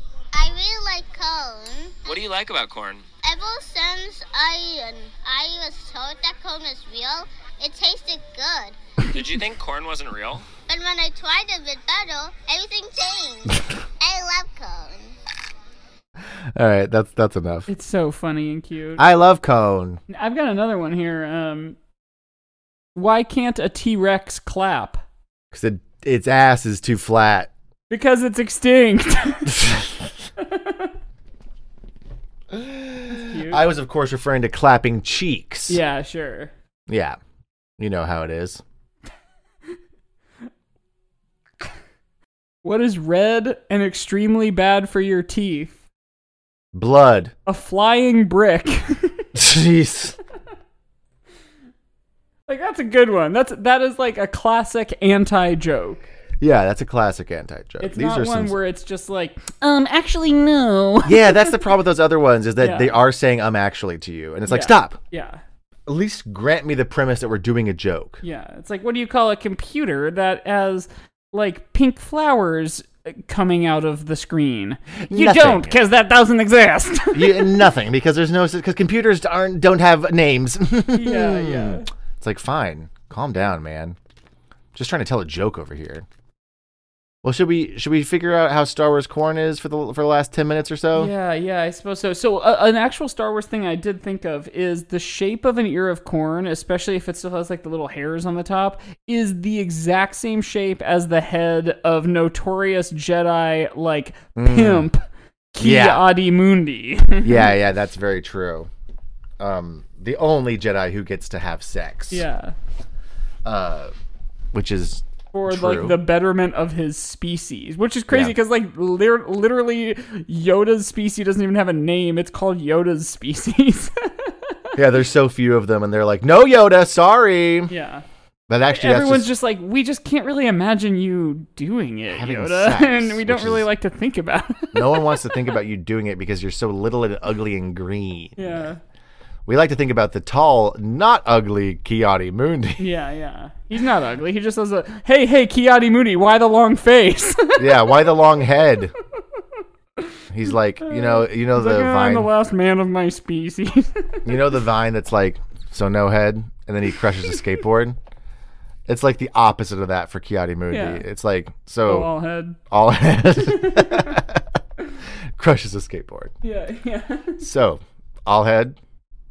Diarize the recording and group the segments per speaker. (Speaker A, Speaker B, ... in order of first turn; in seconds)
Speaker A: 0.3-2.1, 3.2-8.8, 10.6-15.1
Speaker B: 2.1-3.2, 9.1-10.5
Speaker C: 16.6-17.7, 19.0-20.0, 25.5-27.5, 32.5-35.8, 36.9-37.2, 37.8-38.6, 46.7-47.3, 49.4-50.2, 56.4-58.6, 61.0-65.0, 65.9-68.2, 75.1-75.8, 77.1-84.0, 84.8-86.1, 87.2-91.1, 104.4-104.9, 105.6-106.1, 107.2-108.7, 109.4-112.3, 113.4-113.9, 114.5-116.0, 124.8-127.7, 128.5-129.3, 132.1-133.7, 134.7-138.7, 139.5-142.9, 147.6-148.9, 150.3-152.3, 154.2-158.0, 158.9-162.1, 162.7-164.4, 165.4-166.3, 167.4-168.8
Speaker D: 17.7-19.0, 20.1-21.8, 22.9-25.0, 27.9-29.8, 30.4-30.9, 33.1-33.7, 35.7-36.5, 42.6-45.8, 47.5-49.3, 52.5-56.1, 57.8-61.5, 62.6-63.0, 64.5-65.4, 68.2-77.7, 80.9-81.9, 90.9-107.5, 112.1-112.5, 115.3-124.7, 127.7-128.1, 128.7-135.4, 138.4-138.8, 142.8-148.1, 150.8-154.3, 160.7-161.0, 161.8-162.6, 163.4-164.2, 166.4-167.4